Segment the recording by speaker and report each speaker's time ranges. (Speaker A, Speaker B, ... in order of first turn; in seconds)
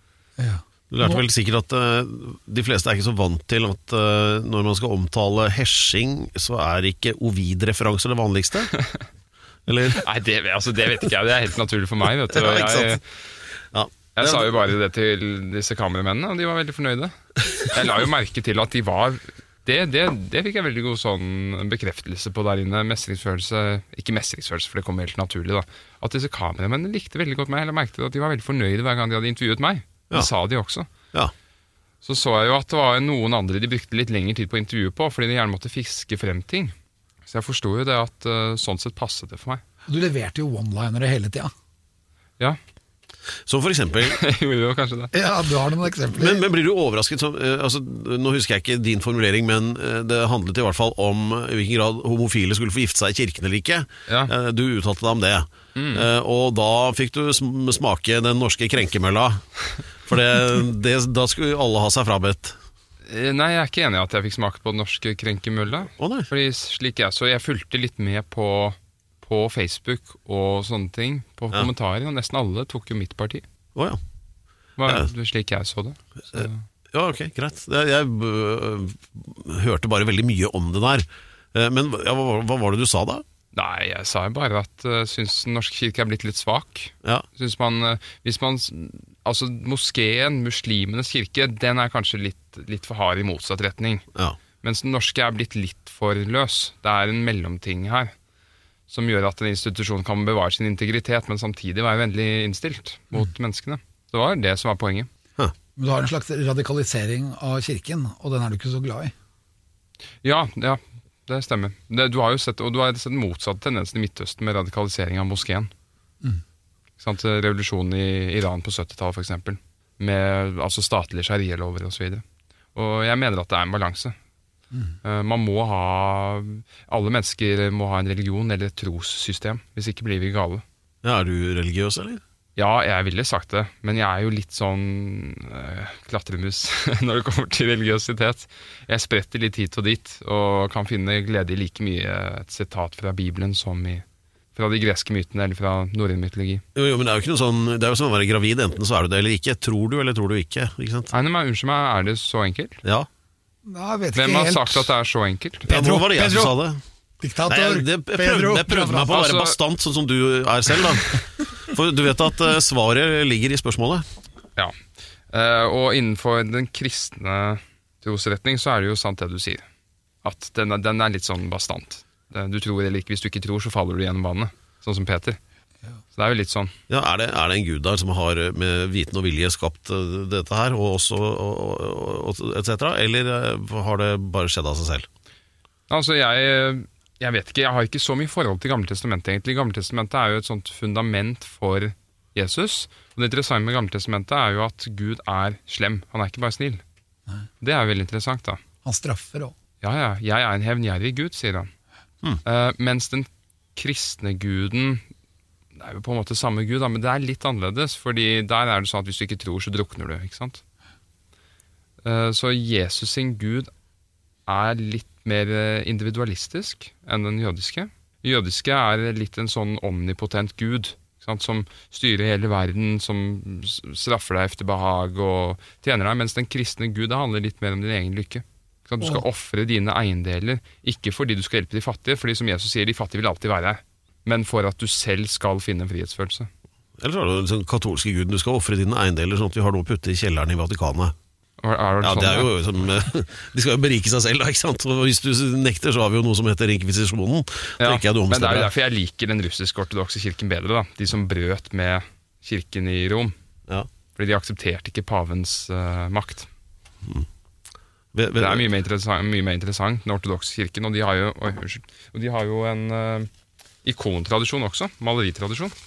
Speaker A: 0.4-1.2, 39.9-41.5, 45.1-46.4, 105.8-109.1, 153.7-154.9, 155.7-156.6, 157.2-159.1, 198.8-199.5
Speaker B: 0.9-8.7, 9.7-10.0, 12.3-13.0, 13.7-14.6, 43.5-44.2, 46.1-59.5, 60.0-62.6, 66.0-66.3, 74.8-75.1, 76.3-83.2, 131.0-132.2, 146.8-151.1, 155.7-156.8, 157.5-164.0, 176.9-185.1, 237.0-241.1, 242.0-248.7, 258.1-258.6
Speaker C: 9.9-13.0, 14.2-30.9, 32.0-36.7, 37.3-39.6, 44.0-45.1, 55.8-56.0, 63.1-73.4, 74.8-76.7, 83.5-94.0, 94.6-98.1, 98.9-105.1, 110.2-115.7, 117.0-122.2, 122.8-124.2, 125.0-130.6, 132.6-144.0, 144.6-146.6, 151.1-152.8, 154.2-155.7, 159.1-159.6, 165.3-169.7, 170.2-175.4, 176.2-176.7, 185.9-196.8, 197.6-198.6, 199.8-201.7, 202.4-205.0, 205.8-210.6, 212.0-213.7, 214.5-236.5, 241.6-242.5, 247.8-253.3, 254.2-256.5, 258.4-263.3, 263.8-265.7